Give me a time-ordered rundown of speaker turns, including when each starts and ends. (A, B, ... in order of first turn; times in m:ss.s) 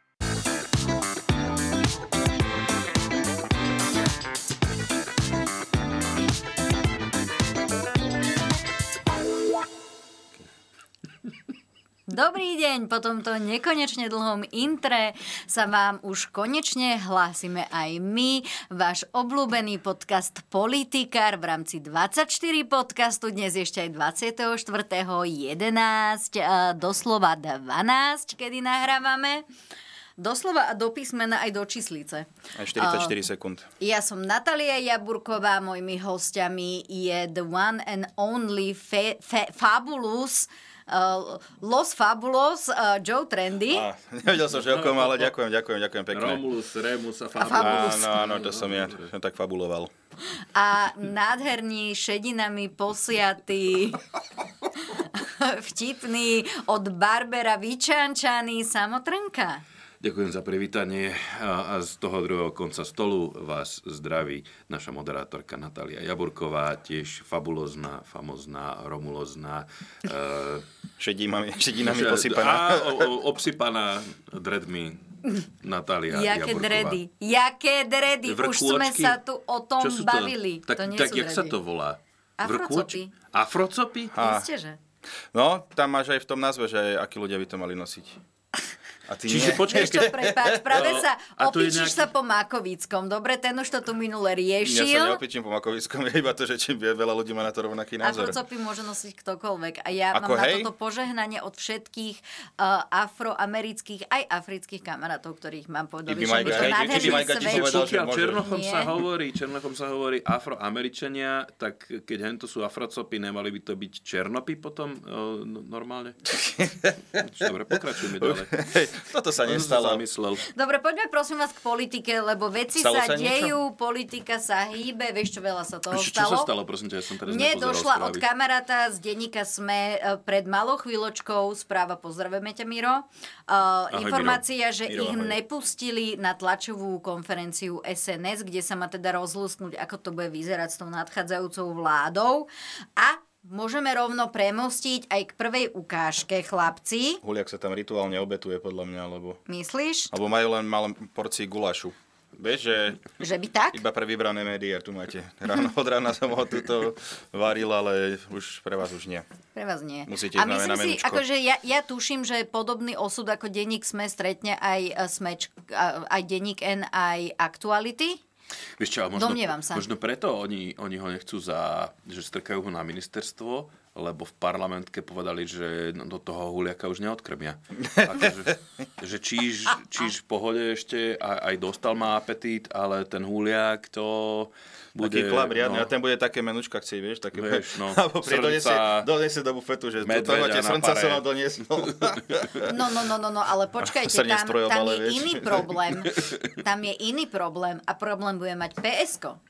0:12.1-0:29.4 A
0:30.2-0:32.3 A
0:32.6-0:33.7 B
0:32.8-0:33.1 A
0:33.8-0:43.9 A
0:43.7-0:46.4 B
0:44.6-0:45.3 C
0:46.1-0:49.0 C
0:47.4-0:48.1 A
0:47.5-0:49.9 B
0:50.6-0:54.0 A
0:54.9-0:59.6 A
1:00.0-1:10.6 C
1:11.0-1:13.1 B
1:11.8-1:15.0 C
1:15.6-1:17.0 C
1:16.1-1:21.5 A
1:18.3-1:19.2 C
1:19.8-1:24.2 C
1:22.4-1:23.1 A
1:24.1-1:24.5 B
1:24.2-1:24.8 A
1:25.3-1:28.2 B
1:29.1-1:30.9 B
1:29.3-1:32.1 C
1:29.5-1:35.2 A
1:34.6-1:38.4 B
1:38.0-1:48.9 A
1:40.1-1:40.7 B
1:46.1-1:48.5 B
1:46.4-1:56.2 C
1:56.3-1:57.2 B
1:57.2-1:58.7 C
1:58.2-2:00.0 B
1:59.4-2:00.4 C
2:00.5-2:06.5 A
2:02.8-2:03.5 B
2:05.9-2:08.2 C
2:07.3-2:27.2 A
2:13.9-2:14.4 C
2:14.9-2:15.4 B
2:27.2-2:29.4 B
2:29.5-2:30.1 A
2:30.1-2:33.0 B
2:33.2-2:33.8 A
2:33.7-2:39.2 B
2:39.6-2:48.2 A
2:40.1-2:41.2 B
2:48.8-3:05.9 C
2:49.2-2:49.8 A
3:05.0-3:12.7 B
3:07.4-3:09.1 C
3:10.0-3:11.2 C
3:12.6-3:19.4 A
3:13.9-3:15.7 B